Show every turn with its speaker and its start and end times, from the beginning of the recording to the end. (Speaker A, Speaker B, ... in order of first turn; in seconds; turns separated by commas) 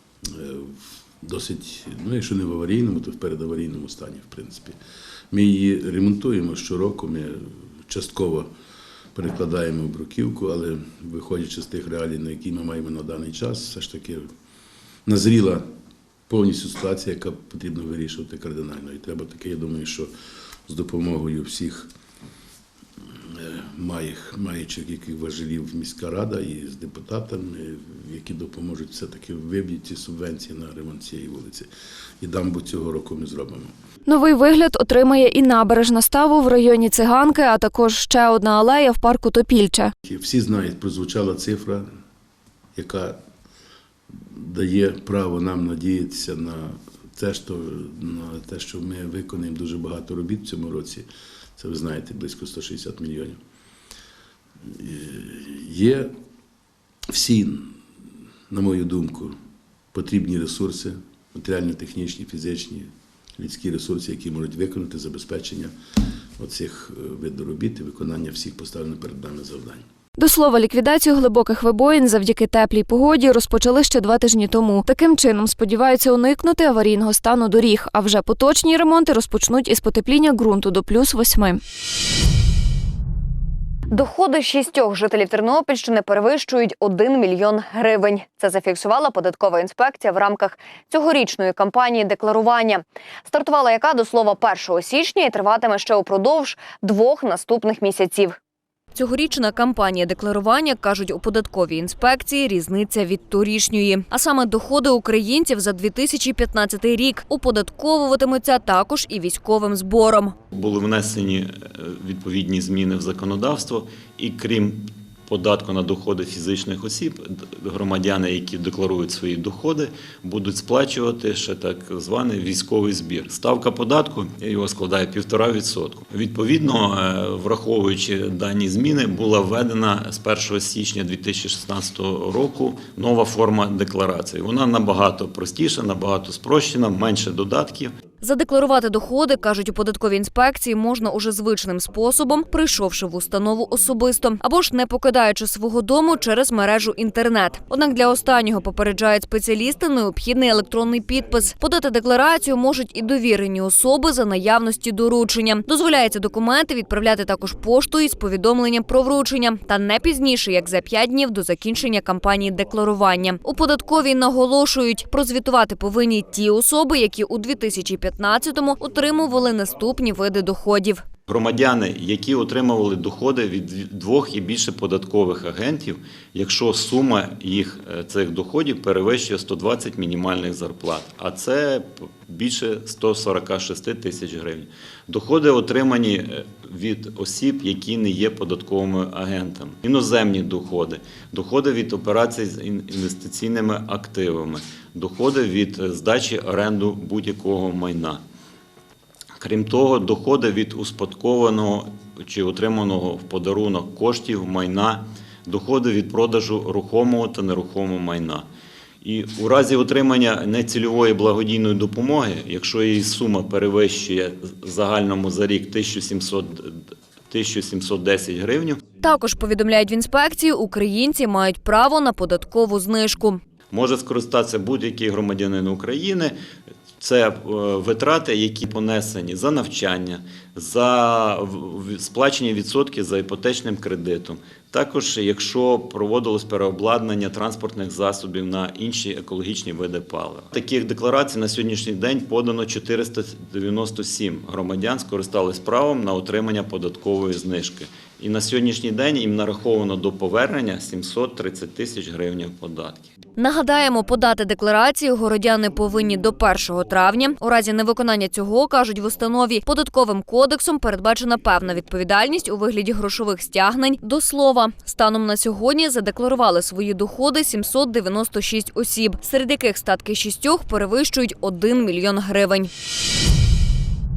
Speaker A: 0.4-4.8, Speaker A: 5.3-8.5, Speaker A: 9.1-14.2, Speaker A: 15.1-15.7, Speaker A: 16.3-20.1, Speaker A: 20.7-21.9, Speaker A: 23.4-31.7, Speaker A: 32.2-33.7, Speaker B: 34.1-39.9, Speaker A: 40.1-41.9, Speaker A: 42.8-43.2, Speaker A: 44.4-53.4, Speaker A: 54.8-56.1, Speaker A: 57.1-57.7, Speaker A: 58.5-59.3, Speaker A: 59.9-65.7, Speaker A: 66.4-69.8, Speaker B: 70.2-81.6, Speaker C: 83.9-98.4, Speaker C: 98.9-110.3, Speaker D: 110.5-137.9, Speaker C: 138.2-171.1, Speaker D: 171.3-198.2, Speaker D: 199.4-208.4, Speaker D: 209.0-216.8, Speaker D: 217.3-218.8, Speaker C: 219.0-223.4, Speaker D: 223.7-226.3, Speaker D: 227.0-253.1, Speaker C: 253.3-272.7